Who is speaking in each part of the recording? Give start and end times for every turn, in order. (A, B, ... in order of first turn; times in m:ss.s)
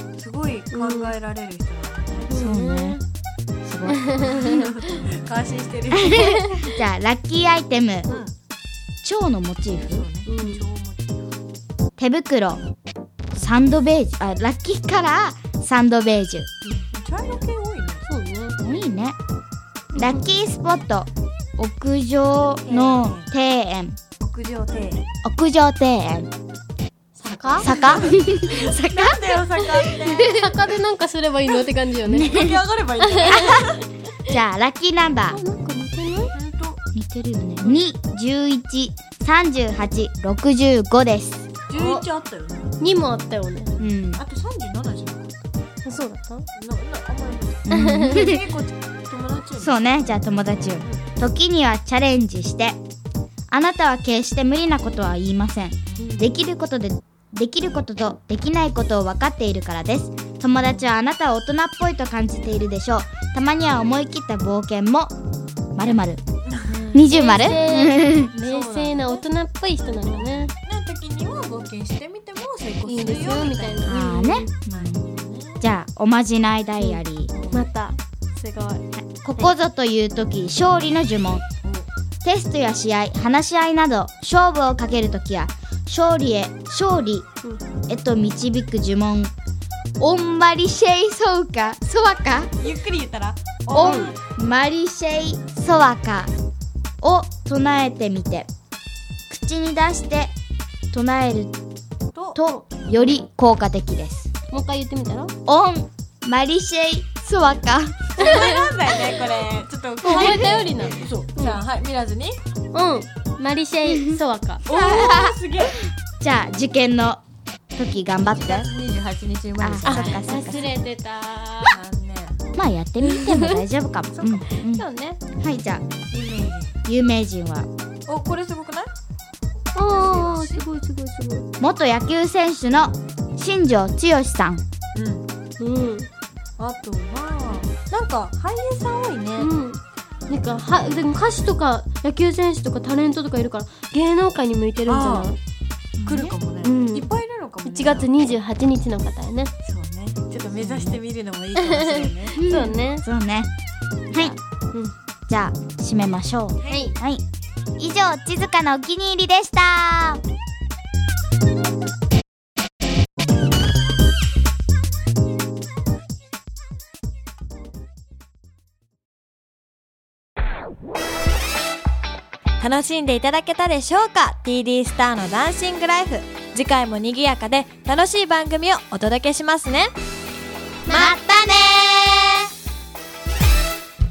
0:00.2-0:02.3 A
0:00.7-0:01.2 B
0:02.3-0:03.0 B
0:02.3-0:03.0 C
0:03.6-0:04.4 C
0:03.9-0:05.0 B
0:04.2-0:06.4 A
0:05.9-0:08.1 C
0:06.1-0:06.7 B
0:08.1-0:08.3 A
0:09.0-0:10.1 C
0:09.9-0:11.2 A
0:10.3-0:10.6 B
0:12.0-0:12.6 C
0:13.3-0:16.5 C
0:13.4-0:13.7 A
0:16.9-0:18.0 A
0:18.0-0:18.6 B
0:18.6-0:19.2 C
0:19.9-0:20.3 B
0:20.0-0:24.0 C
0:22.7-0:23.3 A
0:24.2-0:25.1 A
0:25.2-0:26.3 C
0:27.2-0:27.7 B
0:27.2-0:30.6 A
0:27.6-0:30.2 C
0:29.9-0:32.4 B
0:32.1-0:32.6 C
0:32.2-0:33.8 A
0:33.0-0:33.7 B
0:33.3-0:33.6 C
0:34.3-0:35.4 C
0:35.3-0:36.3 B
0:36.3-0:36.8 A
0:36.9-0:41.5 C
0:41.7-0:42.8 A
0:41.8-0:42.1 B
0:42.8-0:43.7 B
0:43.8-0:45.3 A
0:43.8-0:44.2 C
0:45.8-0:46.5 B
0:46.6-0:49.8 A
0:47.7-0:48.4 C
0:47.7-0:48.3 B
0:49.6-0:52.8 C
0:53.5-1:05.2 C
0:55.9-0:56.3 A
1:00.6-1:00.9 A
1:05.8-1:06.2 C
1:06.5-1:07.1 A
1:06.9-1:08.3 C
1:07.0-1:10.5 B
1:08.3-1:09.2 A
1:10.0-1:14.1 A
1:12.8-1:14.5 B
1:13.8-1:15.0 C
1:14.7-1:15.7 A
1:15.6-1:17.3 C
1:17.3-1:17.7 A
1:17.5-1:18.8 B
1:19.0-1:21.4 C
1:22.2-1:27.3 C
1:27.9-1:29.3 C
1:30.0-1:32.5 C
1:32.6-1:34.2 A
1:33.7-1:36.3 C
1:33.8-1:34.1 B
1:37.0-1:38.5 C
1:39.3-1:40.3 C
1:40.9-1:41.6 C
1:42.2-1:42.4 A
1:42.4-1:44.3 C
1:42.5-1:43.1 B
1:44.5-1:45.3 B
1:45.5-1:48.4 C
1:48.2-1:52.4 A
1:48.2-1:48.6 B
1:50.0-1:51.6 B
1:52.7-1:54.6 B
1:53.9-1:57.2 C
1:54.7-1:55.8 A
1:57.8-1:58.7 C
1:58.2-2:00.5 A
1:59.6-2:00.7 C
1:59.8-2:01.8 B
2:01.7-2:02.4 A
2:02.6-2:04.8 C
2:03.0-2:03.6 B
2:04.1-2:04.5 A
2:04.6-2:05.2 B
2:05.4-2:05.9 C
2:06.1-2:06.8 A
2:06.9-2:07.7 C
2:08.1-2:08.9 A
2:09.7-2:10.6 A
2:09.8-2:11.5 B
2:11.6-2:14.6 C
2:14.9-2:15.3 A
2:15.6-2:16.1 B
2:16.6-2:19.5 A
2:19.4-2:25.4 B
2:24.9-2:25.4 A
2:26.0-2:26.4 C
2:26.0-2:28.1 A
2:26.6-2:27.1 B
2:27.6-2:29.5 B
2:29.6-2:32.4 A
2:30.6-2:31.0 C
2:31.6-2:33.1 B
2:32.4-2:33.5 C
2:34.2-2:34.9 B
2:35.3-2:37.2 C
2:36.6-2:36.9 A
2:36.7-2:37.0 B
2:37.8-2:40.2 C
2:52.6-2:59.9 A
3:00.9-3:02.5 C
3:00.9-3:01.2 B